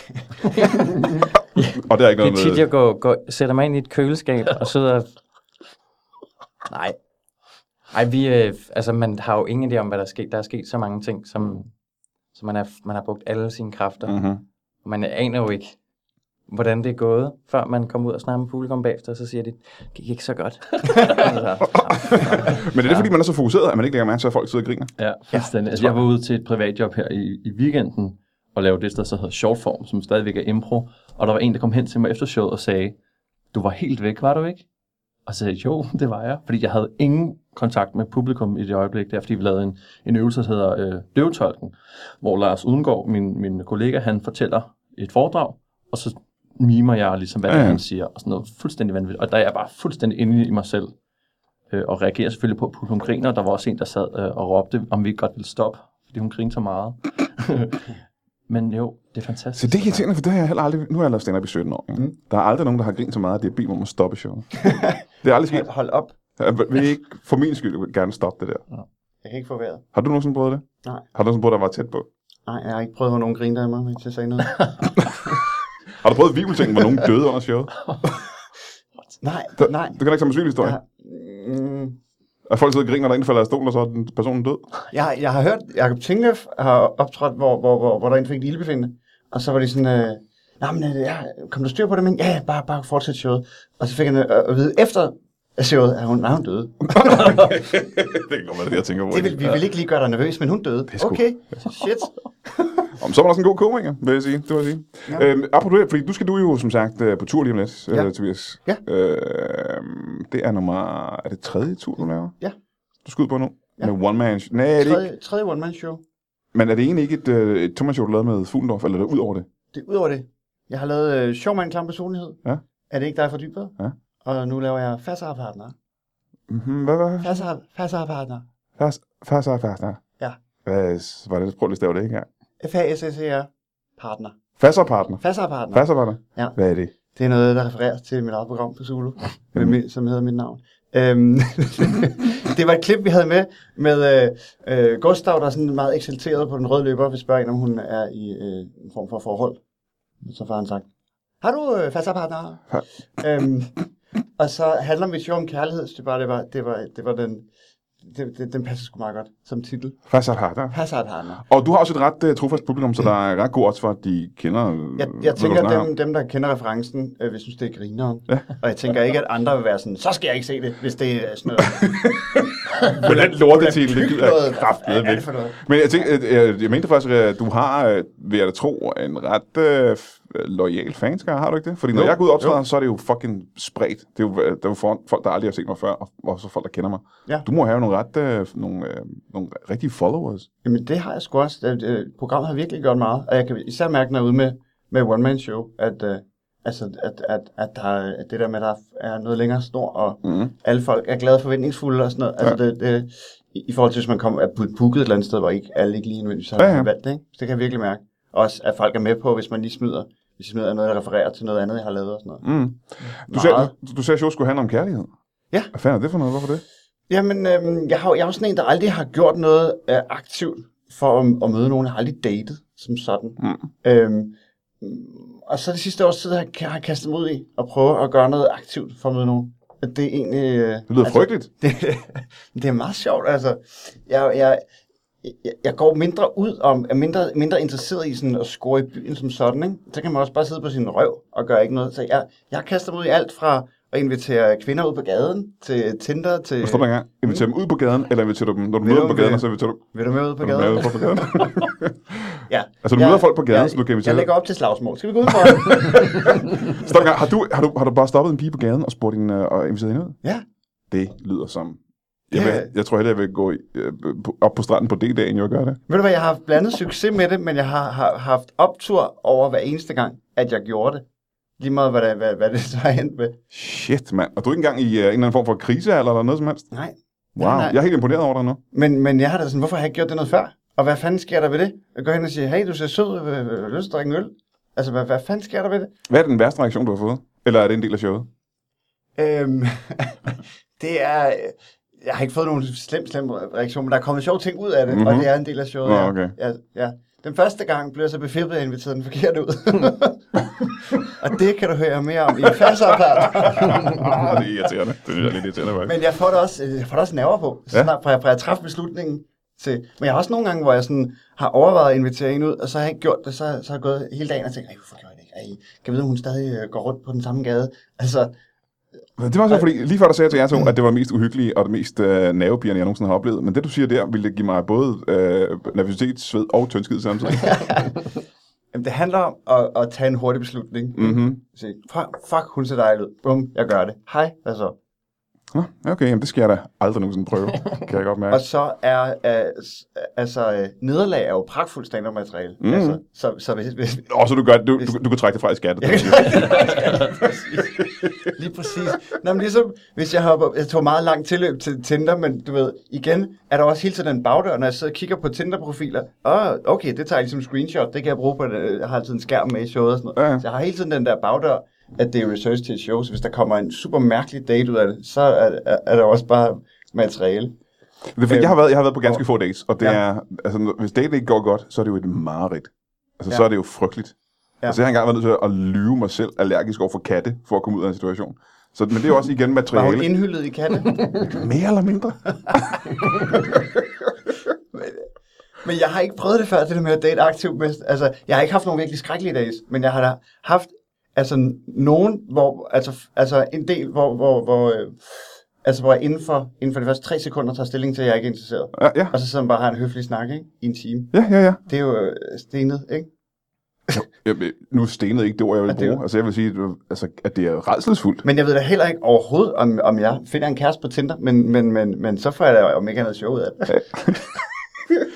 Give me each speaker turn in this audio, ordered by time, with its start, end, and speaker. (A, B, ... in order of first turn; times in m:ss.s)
0:00.4-0:05.1 A
0:01.7-0:02.6 B
0:06.7-0:07.0 A
0:07.9-0:11.7 A
0:12.3-0:15.8 A
0:14.0-0:14.4 B
0:16.5-0:23.1 A
0:21.0-0:21.4 C
0:21.7-0:24.9 B
0:25.0-0:33.0 C
0:33.5-0:34.6 C
0:35.2-0:50.9 C
0:47.5-0:47.8 B
0:51.7-0:57.9 C
0:58.5-1:00.0 C
0:59.6-1:04.6 B
1:04.6-1:06.1 D
1:05.2-1:05.7 B
1:06.4-1:08.6 B
1:09.2-1:09.8 D
1:09.9-1:12.0 B
1:12.4-1:14.9 D
1:16.0-1:17.7 B
1:19.2-1:20.0 D
1:19.6-1:20.8 B
1:20.6-1:22.0 D
1:22.5-1:24.6 B
1:24.9-1:37.5 D
1:36.9-1:39.6 B
1:39.1-1:42.8 D
1:40.9-1:41.2 B
1:43.0-1:52.3 B
1:53.0-1:55.1 B
1:54.8-1:56.0 D
1:56.5-1:59.5 B
1:59.7-2:05.7 D
2:06.5-2:07.4 B
2:07.2-2:08.4 D
2:08.8-2:10.0 B
2:10.6-2:12.3 B
2:12.6-2:14.4 D
2:14.6-2:16.9 B
2:15.2-2:16.6 D
2:17.1-2:29.6 D
2:30.2-2:30.8 D
2:31.4-2:33.8 D
2:34.4-2:37.5 D
2:38.0-2:40.0 D
2:40.1-2:40.8 B
2:40.7-2:41.4 D
2:41.4-2:45.9 B
2:45.0-2:56.1 D
2:51.7-3:10.5 B
3:01.9-3:02.6 D
3:10.6-3:32.4 D
3:20.2-3:20.5 B
3:26.6-3:26.9 B
3:32.4-3:35.1 B
3:33.3-3:33.7 D
3:35.7-3:36.6 B
3:37.1-3:54.6 D
3:43.4-3:43.7 B
3:50.9-3:51.5 B
3:55.2-4:07.4 D
4:06.6-4:09.8 B
4:08.8-4:11.6 D
4:10.4-4:14.3 B
4:12.5-4:16.9 D
4:15.4-4:20.2 B
4:20.9-4:25.8 B
4:22.3-4:22.7 D
4:25.9-4:31.0 D
4:31.6-4:33.4 D
4:33.5-4:36.7 B
4:36.7-4:37.8 D
4:37.4-4:38.6 B
4:38.7-4:45.9 D
4:46.1-4:48.3 B
4:49.2-5:04.4 D
4:54.9-4:55.3 B
4:55.8-4:56.3 B
5:03.2-5:06.0 B
5:05.8-5:18.3 D
5:19.2-5:27.6 B
5:27.3-5:28.1 D
5:28.7-5:34.8 D
5:31.0-5:31.4 B
5:35.5-5:38.4 B
5:38.3-5:44.1 D
5:42.6-5:43.0 B
5:44.1-5:46.8 B
5:45.8-6:07.6 D
5:46.8-5:47.2 C
5:47.6-5:48.3 B
6:00.2-6:00.4 B
6:08.1-6:14.1 B
6:08.3-6:09.2 D
6:14.7-6:20.1 B
6:19.7-6:21.1 D
6:21.1-6:23.4 B
6:24.7-6:25.0 D
6:25.6-6:41.1 D
6:38.7-6:39.1 B
6:41.1-6:41.6 B
6:41.6-6:43.1 D
6:43.9-6:48.2 B
6:45.7-6:46.0 D
6:48.2-6:53.8 D
6:53.7-6:54.2 B